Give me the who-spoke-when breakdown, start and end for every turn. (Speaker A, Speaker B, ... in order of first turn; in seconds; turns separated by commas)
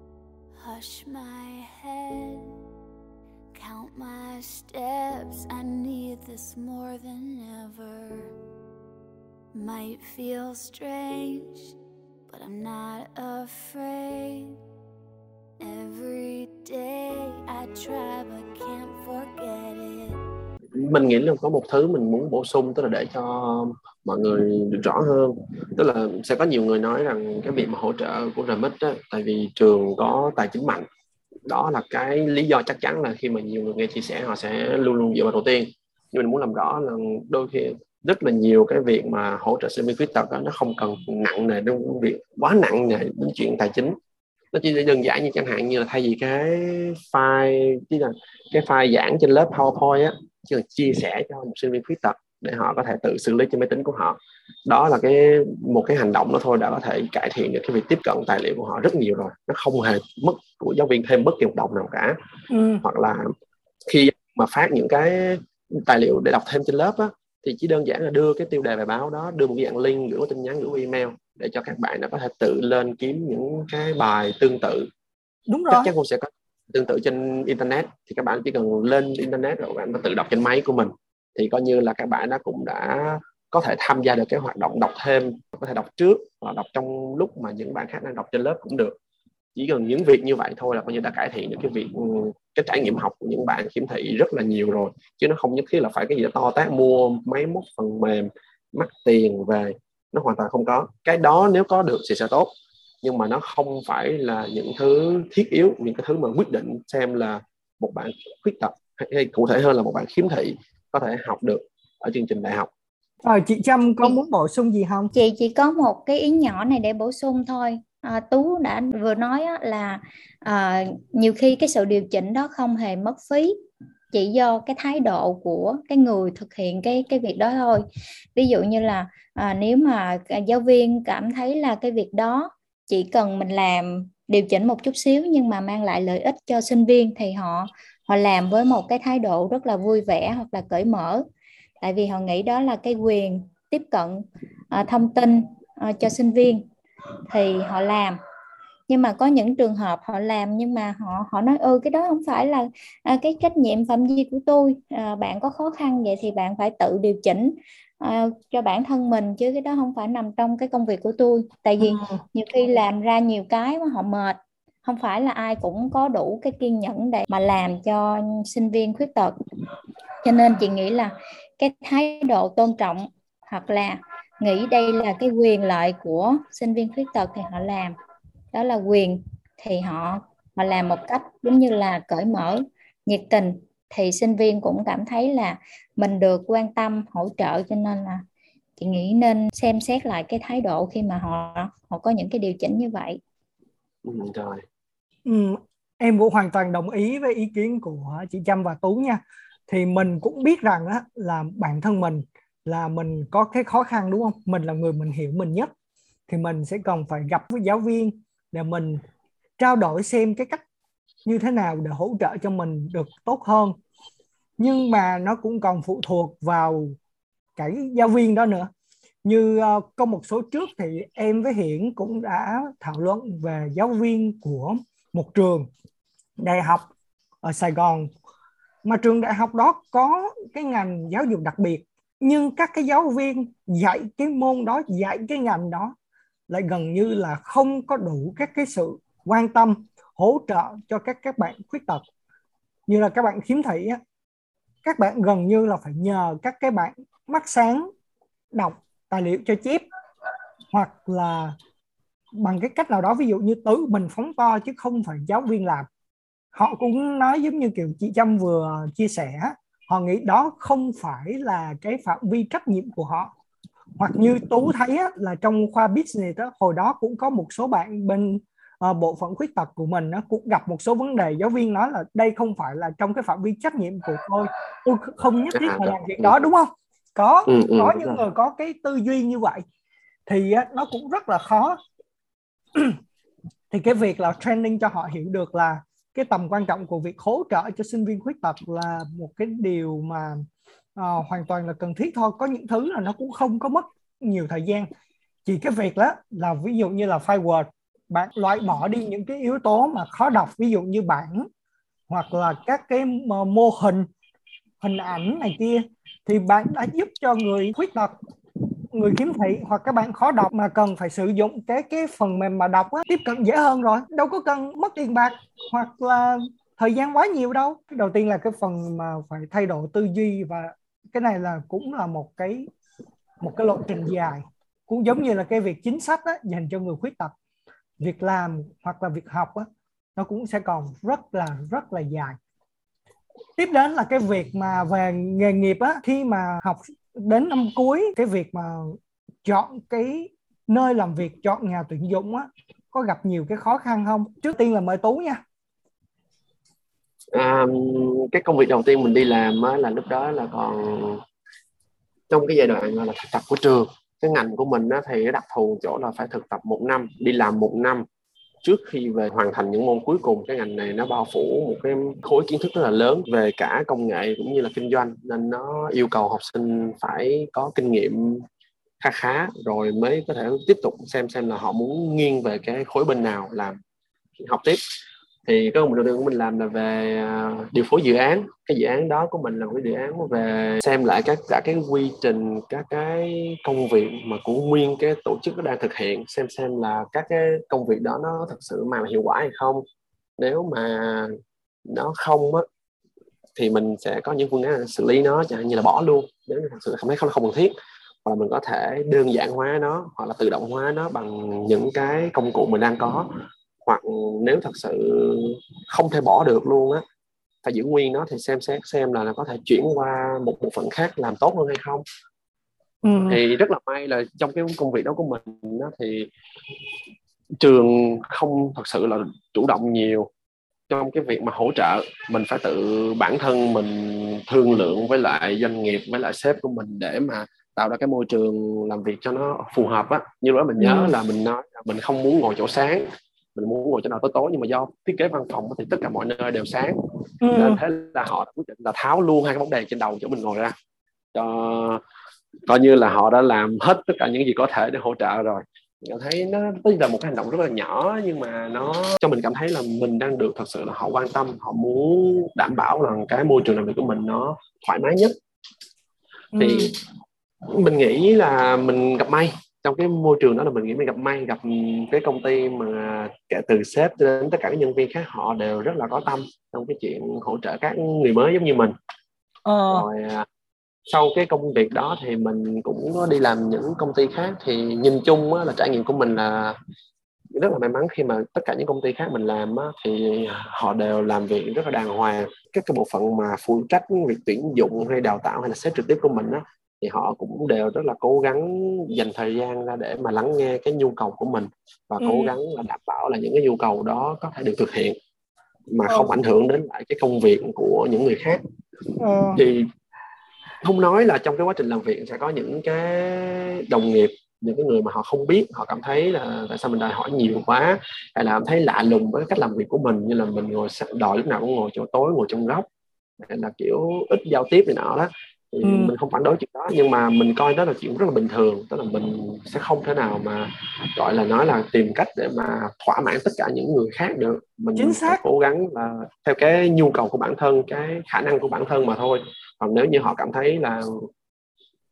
Speaker A: 0.6-2.6, Speaker A: 3.5-8.4, Speaker A: 9.5-11.7, Speaker A: 12.3-14.6, Speaker A: 15.6-20.2, Speaker B: 20.8-30.9, Speaker B: 31.5-44.0, Speaker B: 44.5-62.2, Speaker C: 62.5-62.8, Speaker B: 62.8-63.3, Speaker B: 63.9-74.9, Speaker C: 75.5-75.9, Speaker B: 75.7-89.0, Speaker B: 89.5-102.5, Speaker B: 103.0-112.7, Speaker C: 113.2-115.1, Speaker D: 115.1-123.5, Speaker D: 124.1-141.2, Speaker D: 141.8-146.7, Speaker D: 147.3-148.2, Speaker D: 148.9-169.3, Speaker C: 161.8-162.2, Speaker D: 170.2-178.0, Speaker D: 178.5-188.2, Speaker D: 188.8-193.2, Speaker B: 194.0-194.6, Speaker C: 195.2-205.7, Speaker C: 206.3-209.0, Speaker C: 209.6-210.6, Speaker C: 211.2-213.8, Speaker C: 214.6-217.0, Speaker C: 217.6-218.7, Speaker C: 219.2-225.7, Speaker C: 226.4-226.9, Speaker C: 227.4-228.1, Speaker C: 228.8-235.9, Speaker C: 236.5-242.0, Speaker C: 242.9-244.0, Speaker C: 244.8-247.9, Speaker C: 248.5-249.8, Speaker C: 250.7-251.6, Speaker C: 252.3-255.9, Speaker C: 256.5-263.3, Speaker C: 264.0-279.6, Speaker B: 275.5-276.3, Speaker B: 277.5-278.2, Speaker C: 280.3-281.8, Speaker C: 283.7-290.4, Speaker C: 290.9-294.9, Speaker C: 295.4-301.5, Speaker C: 302.1-304.1, Speaker C: 304.8-308.1, Speaker C: 308.9-322.7, Speaker C: 323.4-327.3, Speaker C: 328.0-332.4, Speaker C: 333.6-345.4, Speaker B: 347.3-351.2, Speaker B: 352.3-358.1, Speaker B: 358.6-368.4, Speaker B: 369.0-373.8, Speaker B: 374.4-374.8, Speaker B: 375.4-389.8, Speaker B: 390.4-392.6, Speaker B: 393.6-397.7, Speaker B: 398.2-403.3, Speaker B: 403.8-407.0, Speaker B: 407.6-412.0, Speaker C: 413.0-413.4, Speaker B: 413.3-416.3, Speaker B: 417.6-420.3, Speaker B: 420.9-436.9, Speaker C: 430.8-431.1, Speaker C: 437.4-437.8, Speaker B: 437.5-440.8, Speaker B: 441.3-442.0, Speaker B: 442.7-455.4, Speaker C: 456.5-456.9, Speaker B: 456.6-457.0, Speaker B: 457.7-468.9, Speaker C: 469.6-470.1, Speaker B: 469.9-470.4, Speaker B: 471.1-476.8, Speaker B: 477.5-495.2, Speaker C: 492.2-492.6, Speaker B: 495.9-498.6, Speaker C: 496.1-496.3, Speaker C: 499.2-499.6, Speaker B: 499.5-499.9, Speaker B: 500.8-512.9, Speaker B: 513.4-531.3, Speaker C: 515.8-516.1, Speaker C: 525.0-525.4